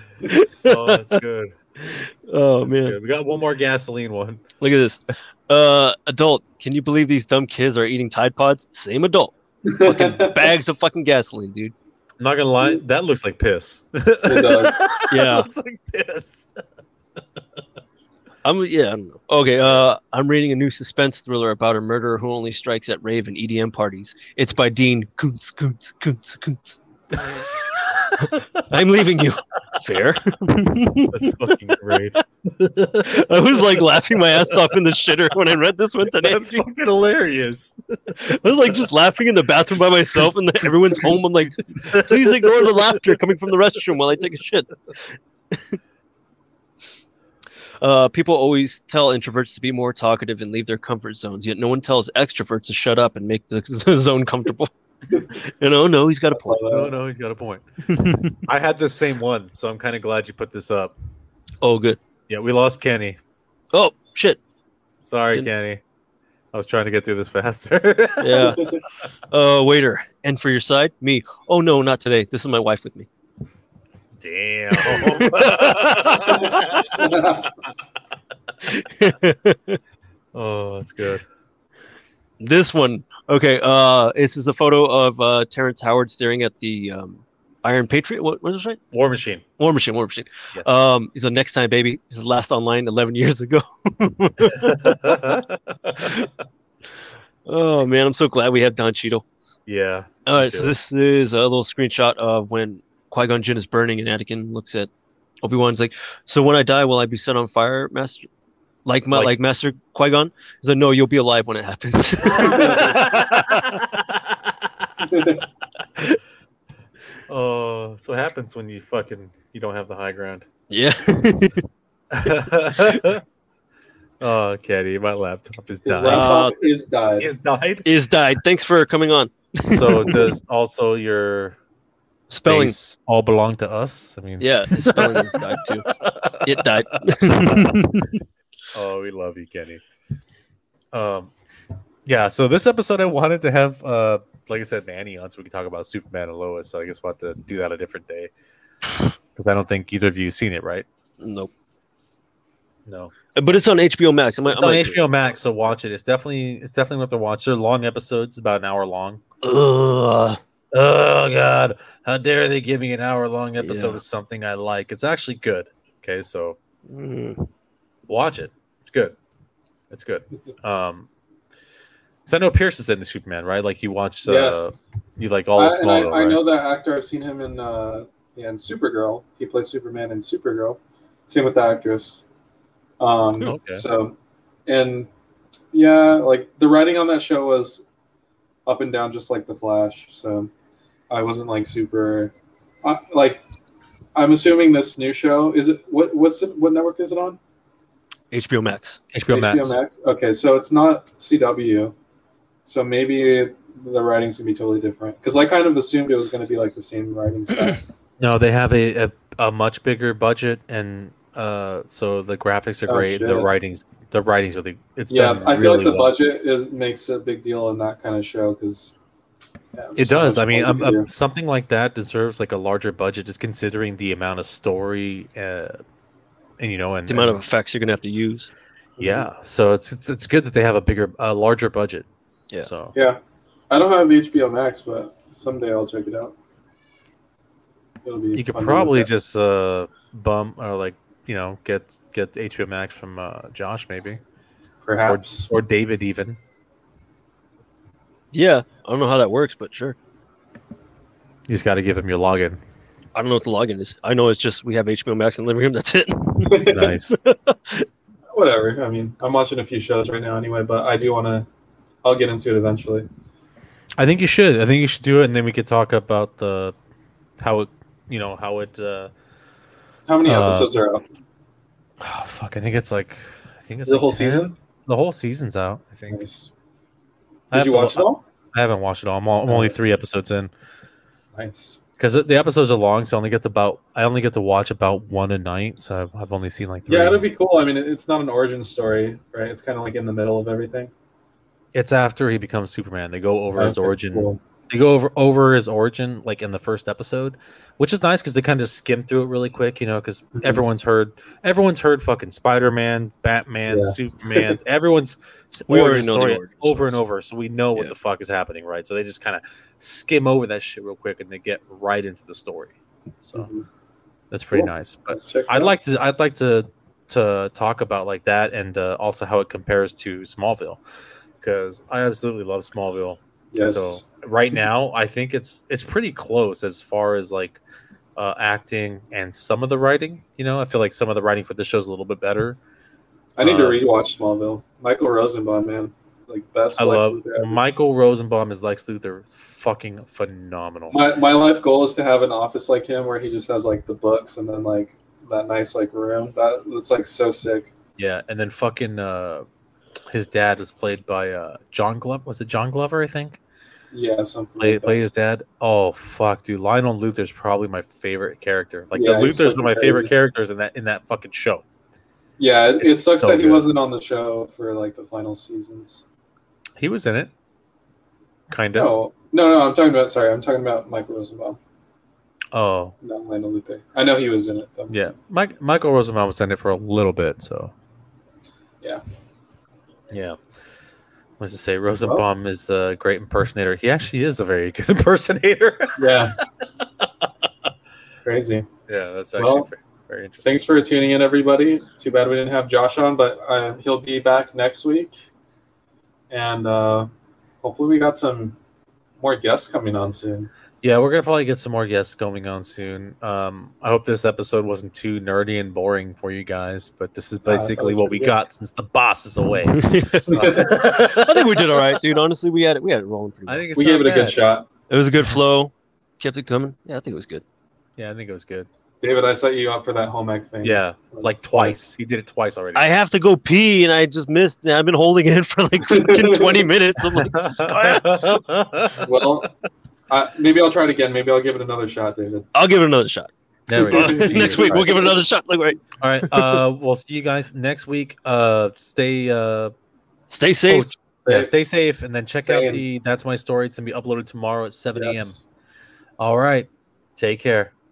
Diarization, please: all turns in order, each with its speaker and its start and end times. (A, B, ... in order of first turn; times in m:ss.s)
0:00.3-0:01.2 A
0:00.6-0:01.6 B
0:01.8-0:03.0 A
0:02.6-0:04.4 B
0:04.6-0:11.7 A
0:09.7-0:10.4 C
0:12.2-0:16.6 B
0:14.3-0:14.9 C
0:15.1-0:15.5 A
0:18.4-0:27.5 A
0:27.3-0:28.7 B
0:28.2-0:31.4 A
0:31.1-0:34.7 B
0:33.0-0:36.6 A
0:36.0-0:38.9 B
0:38.1-0:44.8 A
0:39.7-0:43.2 B
0:45.5-0:45.8 A
0:47.8-0:54.7 A
0:55.3-0:56.7 A
0:56.3-0:56.9 C
0:56.7-1:01.0 B
0:57.9-0:58.4 A
1:01.6-1:02.0 A
1:02.3-1:03.2 B
1:03.7-1:04.4 A
1:05.0-1:05.8 B
1:06.5-1:08.6 B
1:08.2-1:08.8 A
1:09.3-1:13.1 A
1:14.2-1:17.5 B
1:14.7-1:16.4 A
1:16.3-1:17.4 C
1:18.7-1:19.8 A
1:20.3-1:21.2 B
1:22.4-1:28.8 A
1:28.9-1:29.4 B
1:29.6-1:35.2 A
1:34.6-1:36.3 B
1:36.0-1:36.3 A
1:37.5-1:39.3 A
1:39.7-1:40.7 B
1:40.3-1:44.9 A
1:45.4-1:48.3 A
1:48.9-1:53.8 A
1:52.3-1:53.0 C
1:52.4-1:54.7 B
1:55.0-1:55.4 C
1:57.3-2:00.5 B
2:00.7-2:01.7 A
2:02.1-2:03.2 B
2:04.2-2:06.5 B
2:05.8-2:07.3 C
2:06.0-2:06.6 A
2:07.2-2:07.9 B
2:07.8-2:10.3 A
2:09.7-2:11.6 B
2:12.3-2:12.8 A
2:12.5-2:17.8 B
2:14.4-2:15.9 A
2:16.4-2:18.2 A
2:18.7-2:19.8 B
2:20.9-2:21.3 B
2:22.1-2:28.3 B
2:29.4-2:30.9 B
2:31.2-2:31.5 A
2:32.9-2:33.1 B
2:33.3-2:35.0 A
2:34.5-2:39.2 B
2:39.4-2:40.4 A
2:40.7-2:46.6 B
2:43.6-2:44.0 A
2:46.9-2:47.5 A
2:48.1-2:49.2 B
2:49.9-2:51.1 B
2:52.3-2:56.4 B
2:54.2-2:54.9 C
2:55.6-3:02.2 C
3:03.0-3:04.2 C
3:03.4-3:03.8 B
3:04.7-3:05.1 C
3:05.7-3:07.8 C
3:08.7-3:10.5 C
3:11.1-3:12.3 C
3:12.8-3:13.4 C
3:14.2-3:17.4 C
3:18.3-3:19.0 A
3:19.1-3:19.8 B
3:19.3-3:21.9 C
3:22.7-3:27.8 C
3:28.2-3:36.1 B
3:32.9-3:33.5 C
3:35.1-3:38.9 C
3:39.7-3:41.1 C
3:40.0-3:45.8 B
3:46.6-3:47.4 B
3:47.1-3:48.5 A
3:49.0-3:49.3 C
3:49.0-3:52.1 B
3:52.6-3:52.9 B
3:52.9-3:53.2 C
3:53.7-3:56.3 C
3:58.0-3:59.1 C
3:58.4-4:04.2 B
4:04.8-4:05.5 C
4:05.0-4:06.4 B
4:08.3-4:10.0 A
4:11.5-4:12.6 B
4:13.2-4:17.9 A
4:16.4-4:16.9 C
4:16.7-4:17.2 B
4:18.3-4:21.5 C
4:22.0-4:23.1 C
4:24.0-4:26.8 B
4:27.4-4:29.1 B
4:30.1-4:31.0 C
4:30.2-4:30.7 B
4:32.0-4:36.2 B
4:33.8-4:34.6 C
4:36.1-4:36.5 C
4:37.5-4:40.5 B
4:37.5-4:38.2 C
4:39.5-4:39.8 C
4:41.4-4:41.8 C
4:42.0-4:47.2 B
4:46.9-4:50.9 C
4:51.7-5:13.5 B
4:53.6-4:54.4 C
5:00.4-5:00.6 C
5:03.7-5:04.5 C
5:05.7-5:07.0 A
5:13.3-5:13.7 C
5:14.3-5:20.8 B
5:14.5-5:15.7 C
5:21.4-5:27.6 B
5:23.5-5:24.0 C
5:28.2-5:32.6 B
5:33.4-5:37.6 C
5:33.4-5:33.8 B
5:36.8-5:41.0 B
5:40.9-5:47.7 C
5:48.0-5:49.4 B
5:50.1-5:53.4 B
5:53.9-5:55.0 C
5:54.6-6:01.6 B
5:58.9-6:00.1 C
6:02.4-6:06.0 C
6:02.8-6:03.7 B
6:06.8-6:07.3 B
6:08.5-6:08.9 B
6:08.8-6:11.6 C
6:12.5-6:12.9 B
6:13.0-6:15.1 C
6:14.9-6:17.7 B
6:20.1-6:20.4 B
6:21.4-6:26.3 B
6:26.0-6:26.4 C
6:27.0-6:27.3 B
6:28.2-6:28.7 C
6:28.9-6:30.6 B
6:29.4-6:29.7 C
6:30.4-6:35.1 C
6:36.3-6:37.1 C
6:37.6-6:38.6 C
6:39.2-6:40.5 C
6:40.8-6:51.8 B
6:47.5-6:48.4 C
6:49.7-6:53.7 A
6:50.3-6:50.8 C
6:53.5-6:54.4 B
6:53.8-6:54.7 C
6:54.9-6:57.4 A
6:58.0-6:58.7 B
6:59.0-7:01.8 C
7:00.6-7:03.0 B
7:02.8-7:08.2 A
7:05.9-7:06.5 C
7:07.2-7:09.4 B
7:09.0-7:09.5 C
7:10.1-7:12.5 C
7:12.5-7:13.3 A
7:13.7-7:15.1 B
7:13.8-7:16.6 A
7:13.9-7:15.1 C
7:16.0-7:19.7 B
7:20.3-7:20.9 A
7:20.7-7:25.3 B
7:21.2-7:21.5 C
7:22.4-7:22.8 C
7:25.0-7:25.4 C
7:26.2-7:27.7 B